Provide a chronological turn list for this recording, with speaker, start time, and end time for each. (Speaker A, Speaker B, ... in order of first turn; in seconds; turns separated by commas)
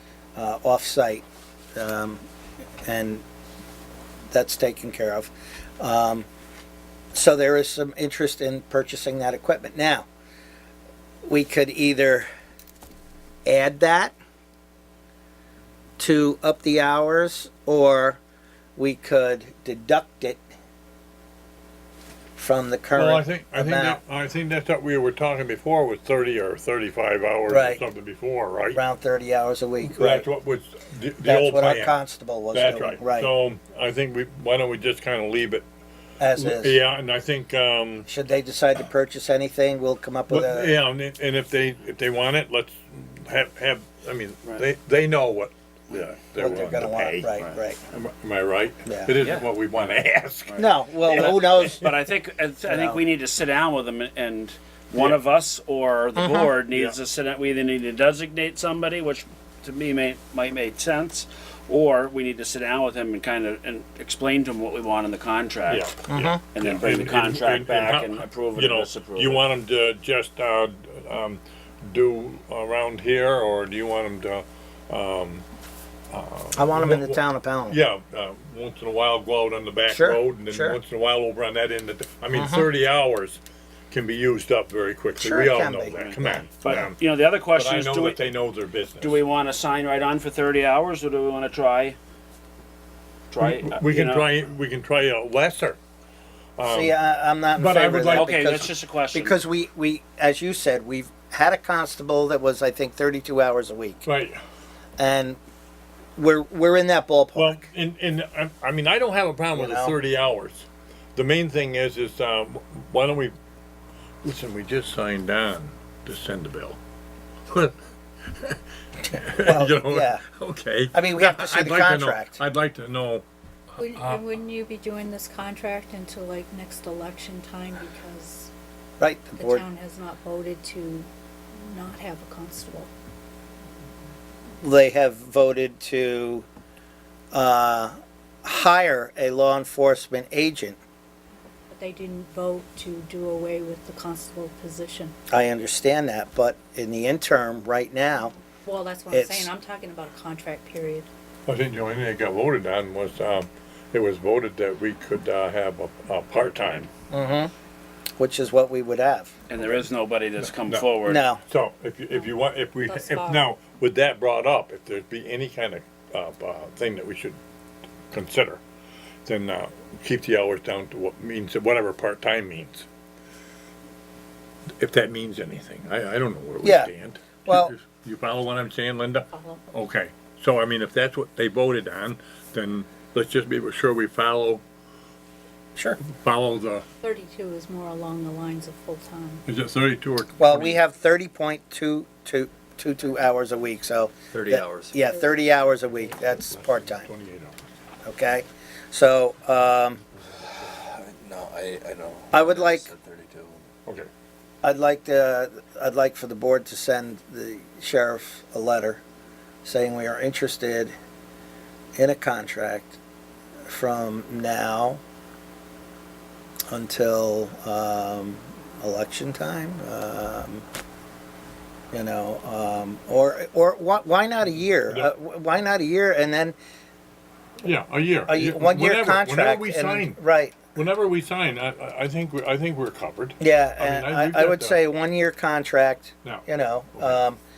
Speaker A: 0.4-1.2, Speaker A: 1.8-2.2, Speaker A: 2.8-3.2, Speaker A: 4.3-6.3, Speaker A: 7.1-10.1, Speaker A: 11.3-12.3, Speaker A: 13.5-14.2, Speaker A: 16.0-18.2, Speaker A: 18.8-20.4, Speaker A: 22.4-24.0, Speaker B: 22.9-28.8, Speaker A: 27.5-27.8, Speaker A: 28.7-30.3, Speaker B: 29.8-32.0, Speaker A: 31.2-33.3, Speaker B: 32.5-35.6, Speaker A: 36.2-36.8, Speaker B: 36.4-38.1, Speaker A: 38.1-40.8, Speaker B: 40.3-51.9, Speaker A: 46.4-47.8, Speaker A: 48.9-49.1, Speaker C: 49.2-49.5, Speaker C: 50.5-65.9, Speaker A: 50.6-51.9, Speaker A: 52.7-53.0, Speaker A: 56.2-56.5, Speaker B: 65.7-75.5, Speaker A: 66.1-66.4, Speaker C: 66.5-69.5, Speaker B: 76.1-83.4, Speaker A: 76.6-77.8, Speaker A: 79.9-80.8, Speaker A: 82.3-82.7, Speaker B: 83.9-87.0, Speaker A: 85.2-86.5, Speaker C: 86.6-88.2, Speaker B: 87.5-89.2, Speaker C: 89.0-92.0, Speaker C: 93.3-94.3, Speaker B: 93.4-95.8, Speaker B: 96.6-97.0, Speaker A: 96.7-104.0, Speaker B: 97.5-98.7, Speaker C: 98.1-99.3, Speaker B: 104.0-104.4, Speaker A: 105.0-105.4, Speaker A: 106.2-107.6, Speaker B: 107.3-113.4, Speaker A: 109.5-110.0, Speaker B: 114.2-116.8, Speaker B: 117.5-123.2, Speaker A: 119.4-120.2, Speaker A: 120.9-122.4, Speaker D: 123.8-128.5, Speaker A: 129.0-129.7, Speaker D: 129.4-132.9, Speaker A: 134.6-136.5, Speaker A: 137.3-140.8, Speaker D: 141.7-145.1, Speaker A: 145.3-148.3, Speaker D: 148.6-151.1, Speaker A: 149.1-149.5, Speaker B: 151.5-156.9, Speaker C: 156.4-156.8, Speaker A: 157.1-157.5, Speaker A: 158.2-159.3, Speaker C: 159.5-161.2, Speaker B: 160.6-160.9, Speaker A: 161.1-161.4, Speaker B: 161.4-167.4, Speaker D: 162.9-163.5, Speaker B: 168.1-168.6, Speaker B: 169.2-172.9, Speaker B: 174.8-184.6, Speaker A: 176.6-176.9, Speaker A: 177.4-177.7, Speaker D: 179.3-179.6, Speaker B: 186.0-186.8, Speaker D: 187.0-189.4, Speaker B: 189.5-190.8, Speaker A: 190.4-197.1, Speaker E: 194.3-195.0, Speaker B: 196.5-197.6, Speaker A: 198.1-200.0, Speaker E: 200.3-203.7, Speaker A: 202.3-202.9, Speaker B: 203.8-204.1, Speaker A: 204.6-209.0, Speaker A: 209.6-210.9, Speaker A: 212.0-213.0, Speaker A: 213.7-215.0, Speaker A: 216.7-220.7, Speaker A: 221.9-226.6, Speaker B: 227.6-230.2, Speaker A: 228.3-230.7, Speaker B: 230.7-234.8, Speaker A: 233.4-237.4